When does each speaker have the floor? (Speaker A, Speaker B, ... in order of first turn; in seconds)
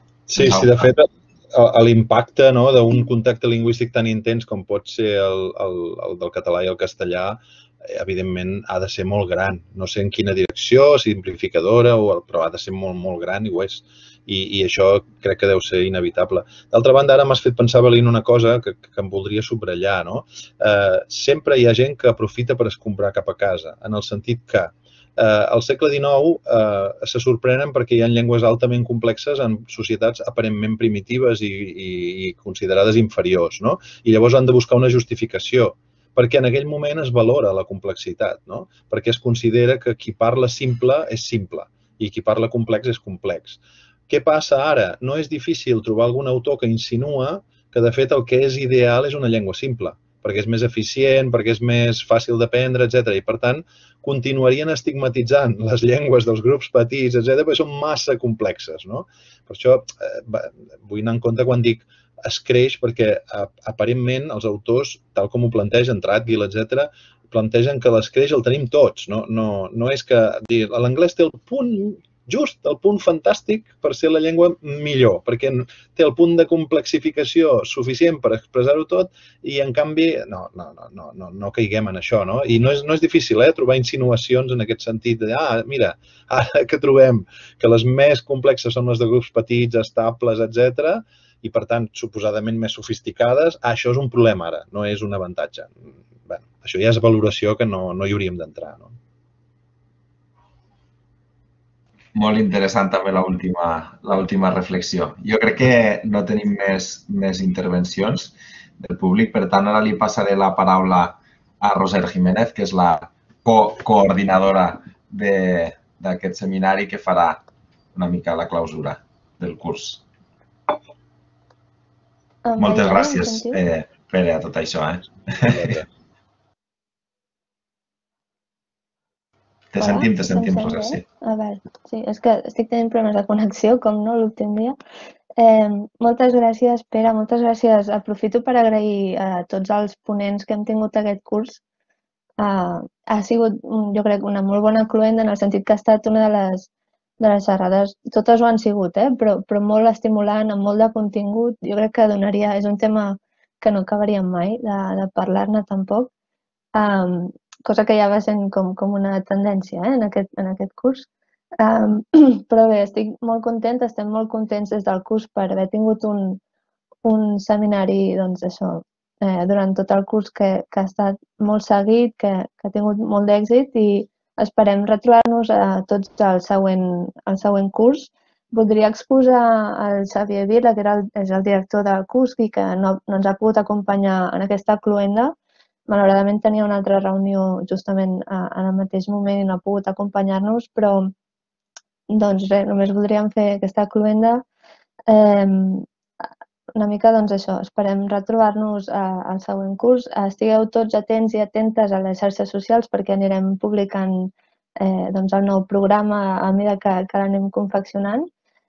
Speaker A: 0.3-95.7, 96.3-98.9, 125.5-125.8
Speaker B: 0.3-0.9, 102.1-120.0, 122.6-125.8, 129.7-131.0
Speaker C: 122.5-123.6, 129.8-134.8, 135.4-141.6, 142.4-146.7, 147.2-156.1, 156.8-161.1, 161.6-166.4, 167.0-185.3, 185.9-191.1, 192.1-194.4, 195.1-195.9, 196.8-208.3